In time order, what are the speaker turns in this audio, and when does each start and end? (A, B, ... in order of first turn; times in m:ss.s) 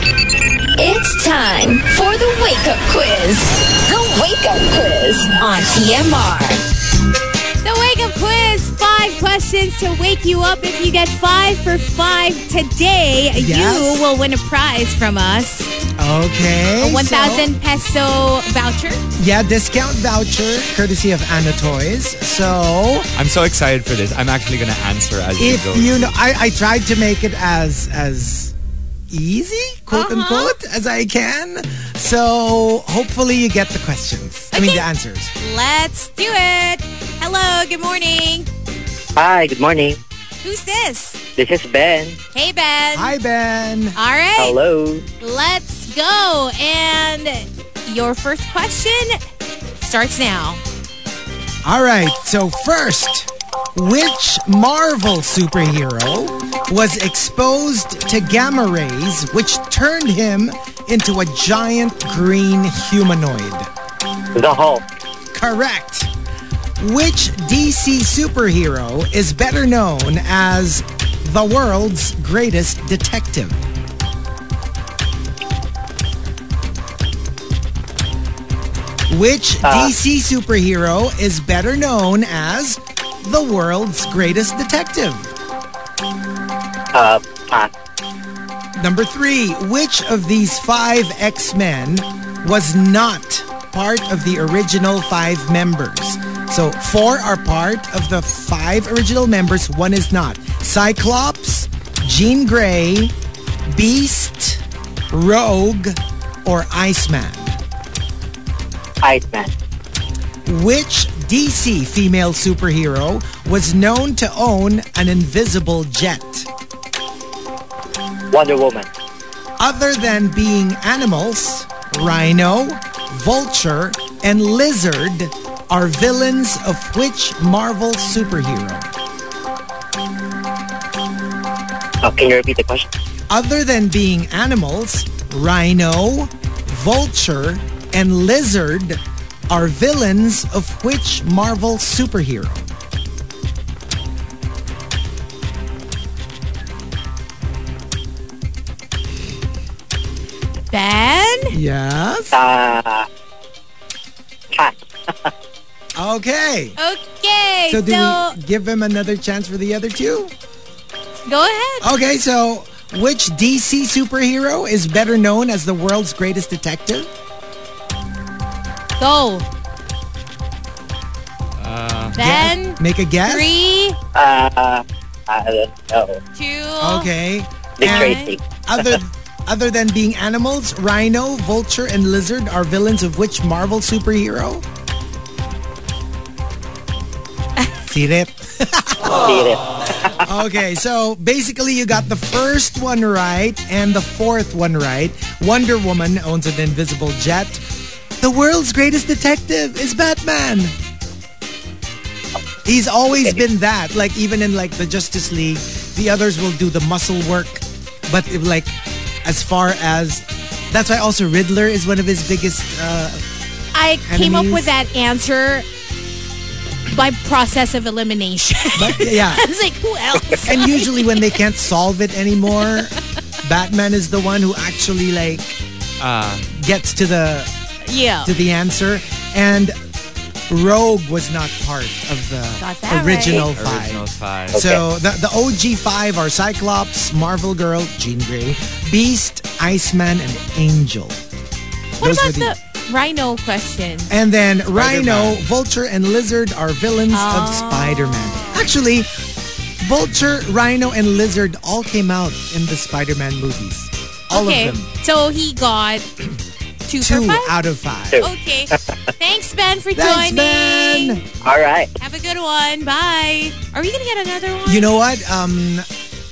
0:00.8-0:06.6 A
0:07.6-0:15.7 B
0:13.3-0:14.1 C
0:16.0-0:17.5 C
0:16.8-0:19.0 B
0:19.2-0:23.1 C
0:23.2-0:26.1 D
0:25.4-0:28.5 C
0:29.1-0:35.3 C
0:29.9-0:30.5 B
0:34.5-0:34.9 B
0:35.4-0:38.5 B
0:39.2-0:40.0 E
0:40.4-0:41.2 B
0:41.4-0:42.2 E
0:42.3-0:43.1 B
0:42.9-0:44.0 C
0:43.9-0:44.6 B
0:44.4-0:45.0 E
0:45.2-0:49.2 B
0:49.8-0:50.6 B
0:51.6-1:03.7 C
1:04.3-1:04.8 E
1:05.3-1:06.1 C
1:06.8-1:13.6 C
1:19.1-1:25.3 C
1:19.6-1:19.9 E
1:26.9-1:27.7 E
1:28.8-1:43.1 C
1:43.7-1:47.6 C
1:49.0-1:49.5 E
1:50.4-1:56.5 C
1:58.3-1:58.9 E
1:59.6-2:08.9 C
2:12.0-2:12.8 E
2:13.3-2:22.6 C
2:30.7-2:31.5 B
2:31.5-2:32.4 C
2:32.3-2:33.0 E
2:34.5-2:35.3 E
2:36.0-2:36.8 C
2:36.8-2:38.4 B
2:37.7-2:40.3 C
2:41.2-2:41.9 B
2:41.8-2:47.1 C
2:49.0-2:49.4 B
2:51.6-2:52.2 D
2:52.1-2:54.0 B
2:52.2-2:53.5 C
2:54.1-2:56.2 E
2:56.3-2:57.1 B
2:56.8-3:04.6 C
2:57.8-2:58.4 E
2:57.8-2:58.3 B
3:07.8-3:09.2 C
3:09.1-3:10.1 E
3:10.2-3:17.6 C
3:18.2-3:20.7 C
3:22.6-3:28.7 C
3:29.2-3:33.2 C
3:33.7-3:35.6 B
3:34.1-3:34.7 C
3:36.9-3:41.2 B
3:38.8-3:39.4 C
3:40.4-3:45.6 C
3:46.0-3:46.5 D
3:46.5-3:47.5 C
3:47.8-3:48.3 B
3:48.2-3:49.7 C
3:50.5-4:01.2 C
3:52.6-3:53.5 B
3:53.4-3:54.6 D
3:54.5-3:54.8 E
4:02.0-4:04.1 B
4:02.0-4:02.5 C
4:04.1-4:09.1 C
4:04.7-4:05.4 D
4:07.1-4:08.7 B
4:09.8-4:14.9 C
4:14.3-4:16.1 B
4:16.8-4:17.5 B
4:17.0-4:18.2 C
4:18.2-4:21.2 B
4:19.9-4:21.2 C
4:21.4-4:21.9 E
4:22.0-4:24.9 B
4:24.6-4:25.8 C